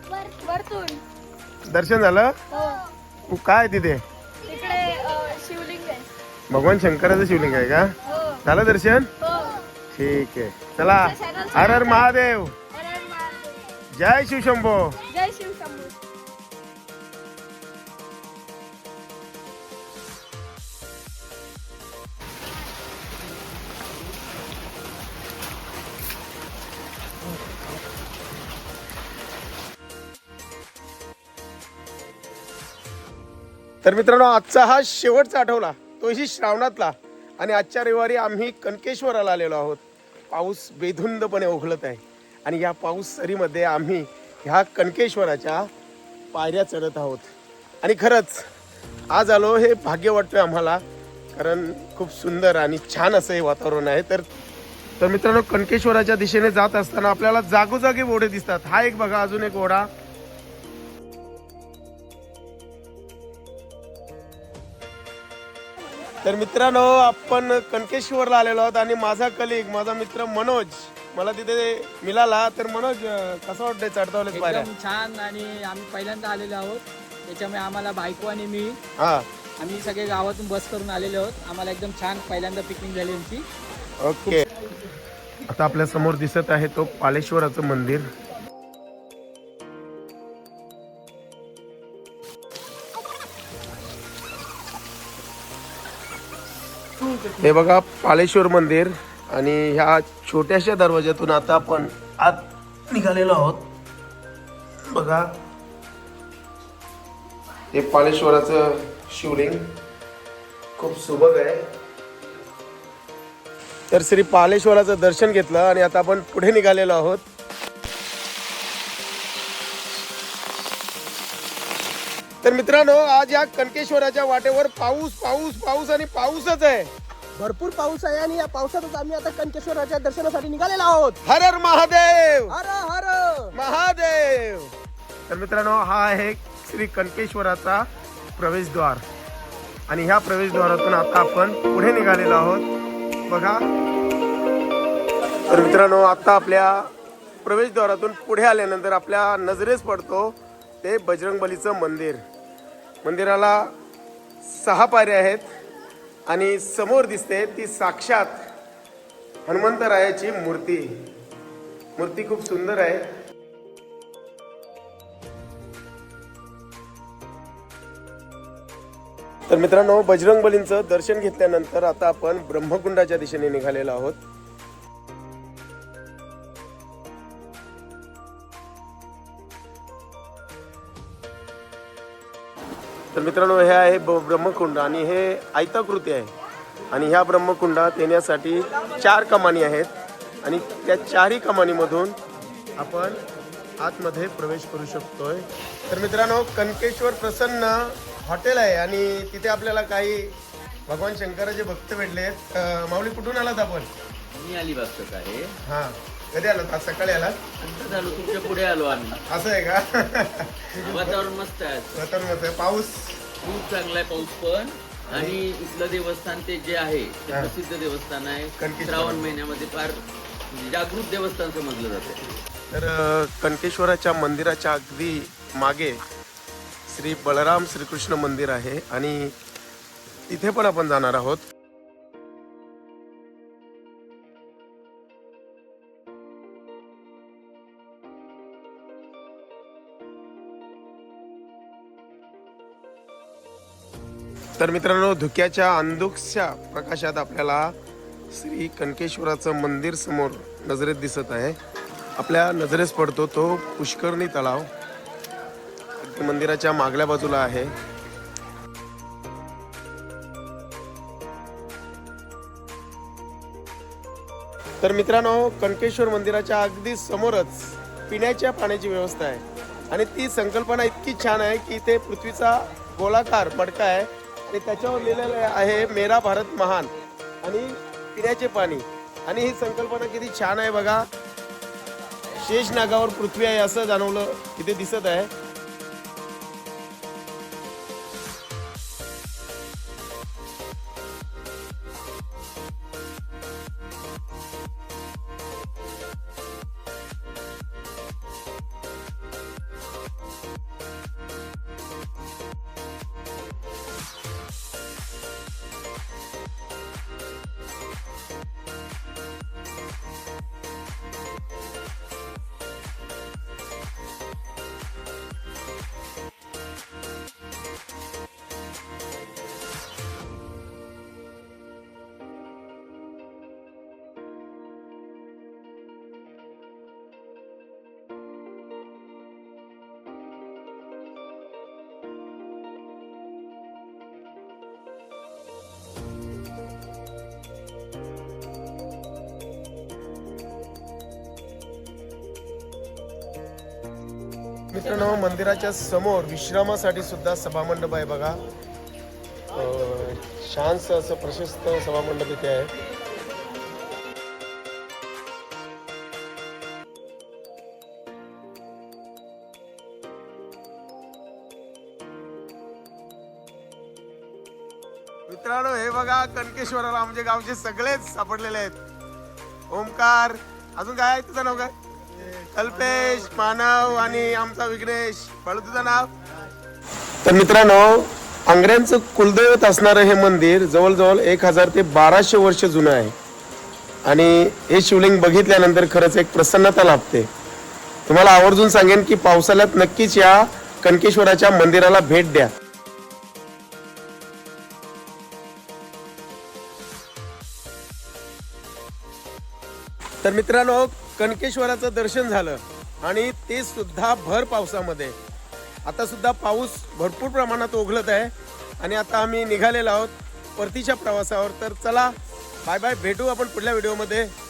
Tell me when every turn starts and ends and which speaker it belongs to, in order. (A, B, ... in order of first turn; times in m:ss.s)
0:00.1-0:01.0 A
0:01.6-0:02.3 B
0:02.5-0:02.9 A
0:03.3-0:04.0 B
0:04.4-0:06.1 A
0:06.5-0:07.9 B
0:08.1-0:08.4 A
0:08.4-0:09.1 B
0:09.3-0:09.6 A
0:09.9-0:12.5 B
0:11.1-0:12.0 A
0:12.7-0:13.7 A
0:13.9-0:15.0 B
0:15.1-0:15.9 A
0:33.8-0:45.7 B
0:46.3-0:48.5 B
0:49.1-0:54.3 B
0:55.0-0:59.9 B
1:06.2-1:14.7 B
1:14.3-1:18.8 C
1:19.0-1:19.3 B
1:19.6-1:23.4 C
1:24.0-1:24.4 B
1:25.5-1:28.1 B
1:37.2-1:43.7 B
1:44.8-1:45.3 B
1:47.7-1:49.7 B
1:50.8-1:51.7 B
1:53.9-1:57.2 B
2:02.4-2:06.9 B
2:07.4-2:11.2 D
2:11.2-2:12.5 B
2:12.5-2:13.5 D
2:13.5-2:14.7 B
2:15.3-2:19.0 B
2:19.9-2:22.7 B
2:23.2-2:23.7 B
2:25.4-2:26.9 B
2:27.4-2:32.2 B
2:33.0-2:33.7 B
2:34.4-2:35.6 B
2:36.3-2:38.5 B
2:39.4-2:41.1 B
2:42.0-2:43.1 B
2:49.5-2:54.2 B
3:03.1-3:06.3 B
3:06.9-3:09.9 B
3:10.4-3:12.2 B
3:12.8-3:13.2 B
3:13.8-3:23.9 B
3:24.3-3:25.6 E
3:25.6-3:27.4 B
3:27.6-3:29.2 E
3:29.2-3:31.2 B
3:30.8-3:31.9 E
3:31.9-3:33.2 B
3:33.4-3:40.0 E
3:35.1-3:35.4 B
3:38.6-3:39.3 B
3:40.5-3:42.2 E
3:42.7-3:46.0 B
3:46.9-3:49.4 B
3:50.3-3:51.4 B
4:04.6-4:07.8 B
4:08.3-4:11.6 B
4:12.2-4:14.7 B
4:16.0-4:17.7 B
4:24.8-4:36.9 B
4:37.4-4:41.1 B
4:42.4-4:45.3 B
5:44.7-5:48.4 B
5:49.5-5:52.7 B
6:05.3-6:08.8 B
6:09.7-6:11.7 B
6:12.4-6:16.1 B
6:17.2-6:23.1 B
6:24.0-6:27.3 B
6:28.0-6:32.5 B
6:40.2-6:45.2 B
6:45.8-6:54.3 B